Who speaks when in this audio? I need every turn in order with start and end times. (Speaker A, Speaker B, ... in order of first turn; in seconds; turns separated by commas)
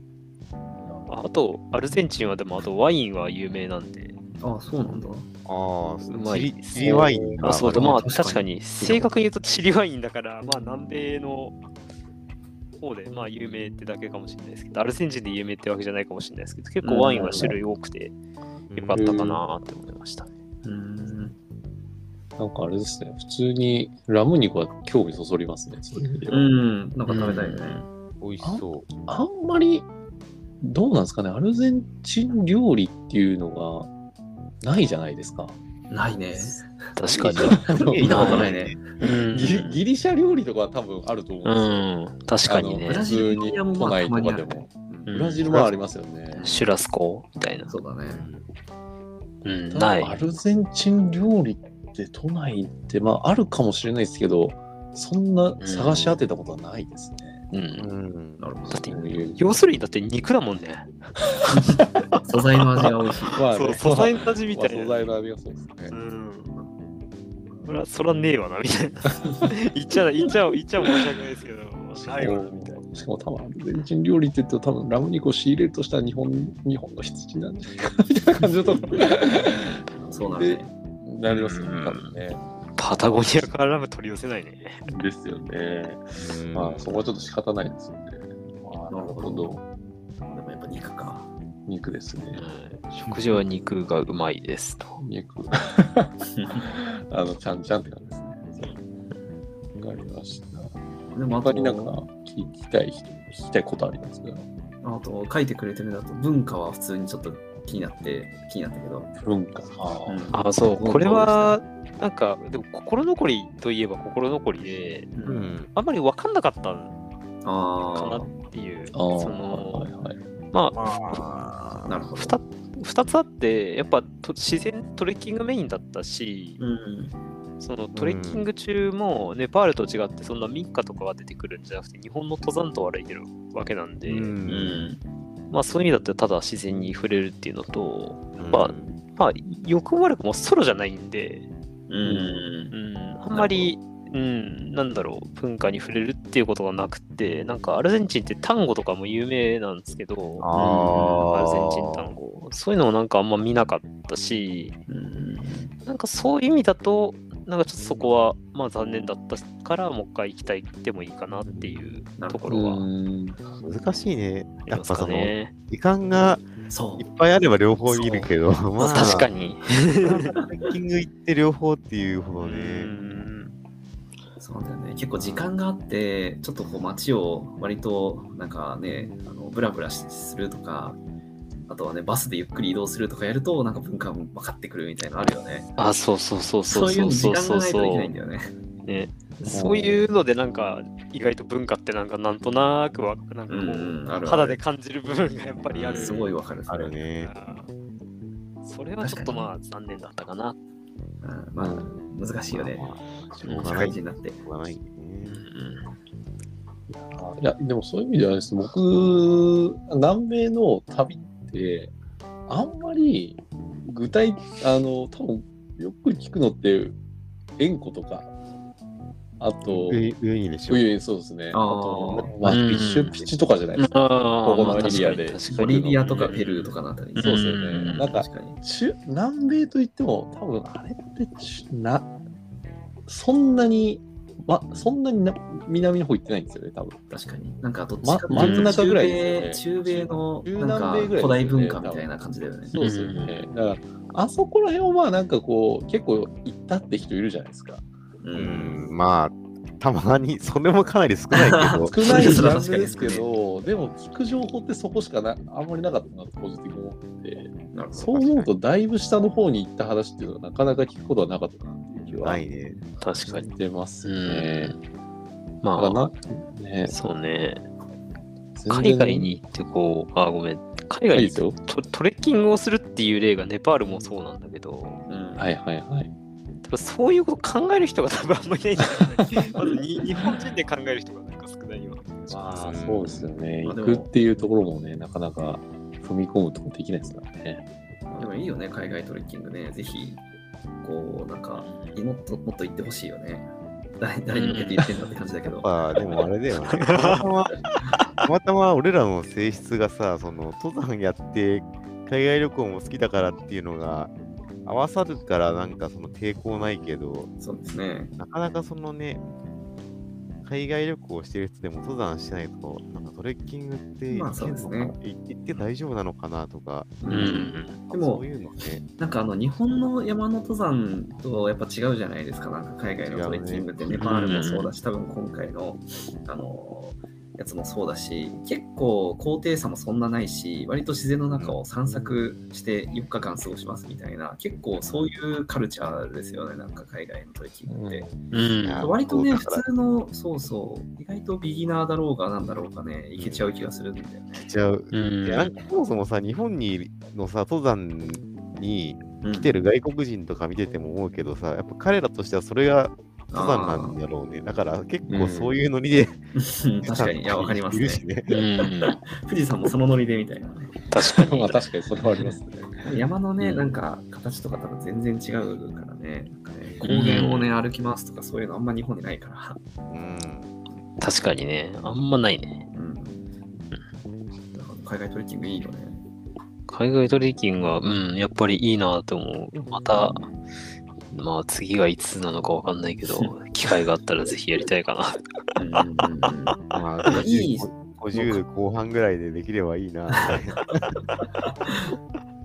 Speaker A: 1.1-4.2, Speaker B: 4.4-5.3, Speaker C: 5.5-8.0, Speaker A: 6.1-11.6, Speaker B: 6.9-9.0, Speaker A: 12.8-18.1, Speaker B: 16.8-17.6, Speaker C: 18.7-19.1, Speaker A: 18.7-20.3, Speaker D: 18.9-19.4, Speaker B: 20.6-21.4, Speaker D: 22.4-26.5, Speaker B: 26.3-27.8, Speaker A: 27.1-27.9, Speaker C: 28.2-28.9, Speaker D: 28.4-29.9, Speaker D: 30.6-33.9, Speaker D: 34.6-35.5, Speaker B: 35.9-38.8, Speaker A: 37.0-39.7, Speaker C: 37.4-38.8, Speaker D: 37.4-38.5, Speaker D: 39.3-41.9, Speaker A: 41.4-43.1, Speaker D: 42.5-46.5, Speaker B: 42.9-45.2, Speaker A: 45.1-45.5, Speaker B: 46.3-46.7, Speaker A: 46.4-47.7, Speaker B: 47.7-48.3, Speaker C: 48.1-48.5, Speaker A: 49.4-50.2, Speaker D: 49.7-57.4, Speaker A: 55.6-56.2, Speaker A: 57.5-57.9, Speaker C: 57.8-58.5, Speaker B: 58.4-59.2, Speaker A: 58.7-61.0, Speaker D: 58.9-59.6, Speaker A: 61.5-62.2, Speaker B: 61.5-63.4, Speaker D: 63.3-66.0, Speaker A: 63.5-64.9, Speaker A: 65.9-66.6, Speaker A: 67.7-72.8, Speaker D: 72.0-82.4, Speaker B: 79.9-80.7, Speaker A: 81.3-82.2, Speaker A: 82.8-84.8, Speaker D: 84.8-89.6, Speaker C: 86.2-86.9, Speaker B: 88.9-89.5, Speaker B: 90.2-91.3, Speaker D: 91.7-92.5, Speaker A: 92.3-95.0, Speaker D: 95.0-98.8, Speaker B: 96.3-96.7, Speaker D: 99.8-100.7, Speaker B: 101.1-102.0, Speaker D: 101.3-104.5, Speaker B: 104.8-109.1, Speaker D: 109.2-110.2, Speaker B: 110.1-111.6, Speaker A: 110.3-115.1, Speaker B: 115.1-115.5, Speaker C: 115.2-115.7, Speaker A: 115.7-117.0, Speaker B: 117.4-118.3, Speaker A: 117.9-119.9, Speaker D: 118.9-120.2, Speaker A: 120.5-121.2, Speaker C: 120.8-121.9, Speaker B: 121.8-122.4, Speaker A: 122.2-126.6, Speaker B: 126.6-127.2, Speaker A: 127.6-134.3, Speaker C: 128.0-128.5, Speaker C: 134.1-134.9, Speaker B: 134.5-135.0, Speaker A: 135.5-141.5, Speaker C: 138.4-139.0, Speaker B: 141.9-142.8, Speaker D: 142.1-142.5, Speaker A: 142.7-150.5, Speaker B: 143.3-143.7, Speaker C: 150.4-152.1, Speaker B: 150.5-151.3, Speaker A: 151.2-154.8, Speaker B: 154.9-155.8, Speaker A: 155.9-162.8, Speaker C: 161.5-161.8, Speaker B: 162.2-162.8, Speaker D: 162.5-163.4, Speaker C: 163.6-166.5, Speaker A: 164.7-165.5, Speaker B: 166.7-167.1, Speaker C: 167.0-169.3, Speaker B: 167.9-169.2, Speaker A: 168.8-170.3, Speaker C: 170.0-172.9, Speaker A: 172.4-173.6, Speaker B: 174.4-181.0, Speaker B: 181.7-185.7, Speaker A: 185.8-188.1, Speaker B: 186.7-188.5, Speaker A: 188.8-196.3, Speaker D: 189.5-190.1, Speaker B: 193.5-194.6, Speaker C: 195.7-197.4, Speaker B: 195.9-197.0, Speaker A: 197.2-197.7, Speaker A: 198.6-200.6, Speaker B: 199.0-199.5, Speaker B: 201.2-202.9, Speaker D: 201.6-202.0, Speaker C: 202.5-205.4, Speaker A: 203.4-203.8, Speaker B: 203.4-204.4, Speaker A: 205.2-205.8, Speaker D: 206.9-211.9, Speaker D: 212.5-217.0, Speaker D: 217.6-218.3, Speaker D: 219.4-220.0, Speaker C: 219.8-220.9, Speaker D: 220.7-226.3, Speaker B: 221.5-222.3, Speaker A: 222.4-223.2, Speaker A: 223.8-228.1, Speaker B: 224.9-228.6, Speaker D: 227.2-232.1, Speaker D: 233.1-237.1, Speaker B: 237.1-242.8, Speaker D: 238.0-242.1, Speaker C: 238.4-238.8, Speaker D: 242.7-247.8, Speaker A: 242.8-243.4, Speaker B: 248.2-248.8, Speaker C: 248.3-252.4, Speaker B: 251.3-253.2, Speaker D: 251.9-262.4, Speaker B: 257.7-258.2, Speaker C: 258.1-258.5, Speaker C: 262.2-262.8, Speaker A: 263.0-263.5, Speaker D: 263.3-264.8, Speaker A: 264.0-264.8, Speaker A: 265.6-266.1, Speaker D: 265.8-267.0, Speaker A: 266.9-267.6, Speaker D: 268.6-269.3, Speaker A: 268.7-275.0, Speaker D: 271.1-271.6, Speaker B: 275.1-275.5, Speaker D: 275.4-276.1, Speaker A: 276.6-282.8, Speaker D: 282.3-287.6, Speaker C: 282.6-283.3, Speaker B: 283.6-284.1, Speaker B: 288.1-290.2, Speaker B: 290.8-295.7, Speaker A: 291.6-292.0, Speaker A: 294.3-294.9, Speaker C: 295.5-297.6, Speaker A: 296.7-297.2, Speaker C: 298.2-304.1, Speaker C: 304.6-307.3, Speaker B: 307.4-308.1, Speaker C: 308.2-309.2, Speaker C: 310.4-318.9, Speaker B: 314.1-315.0, Speaker B: 317.0-318.2, Speaker A: 317.1-317.8, Speaker B: 319.0-338.1, Speaker C: 323.1-323.9, Speaker A: 324.0-324.7, Speaker C: 331.3-331.6, Speaker D: 337.7-338.2, Speaker A: 338.3-338.9, Speaker C: 338.6-339.6, Speaker B: 338.8-344.4, Speaker C: 343.2-343.5, Speaker C: 344.4-356.2, Speaker A: 344.9-345.5, Speaker B: 349.2-349.6, Speaker B: 353.3-354.0, Speaker D: 355.1-355.6, Speaker B: 356.4-358.1, Speaker C: 356.8-358.3, Speaker A: 358.3-359.0, Speaker B: 358.9-360.8, Speaker A: 360.9-361.6, Speaker D: 361.2-363.0, Speaker B: 362.8-369.6, Speaker A: 363.4-363.7, Speaker A: 366.8-367.6, Speaker C: 369.9-370.5, Speaker A: 371.0-372.7, Speaker B: 372.7-373.2, Speaker B: 374.5-376.0, Speaker A: 376.7-380.2, Speaker A: 381.1-385.2, Speaker B: 385.6-388.4, Speaker C: 386.7-391.0, Speaker B: 391.7-391.9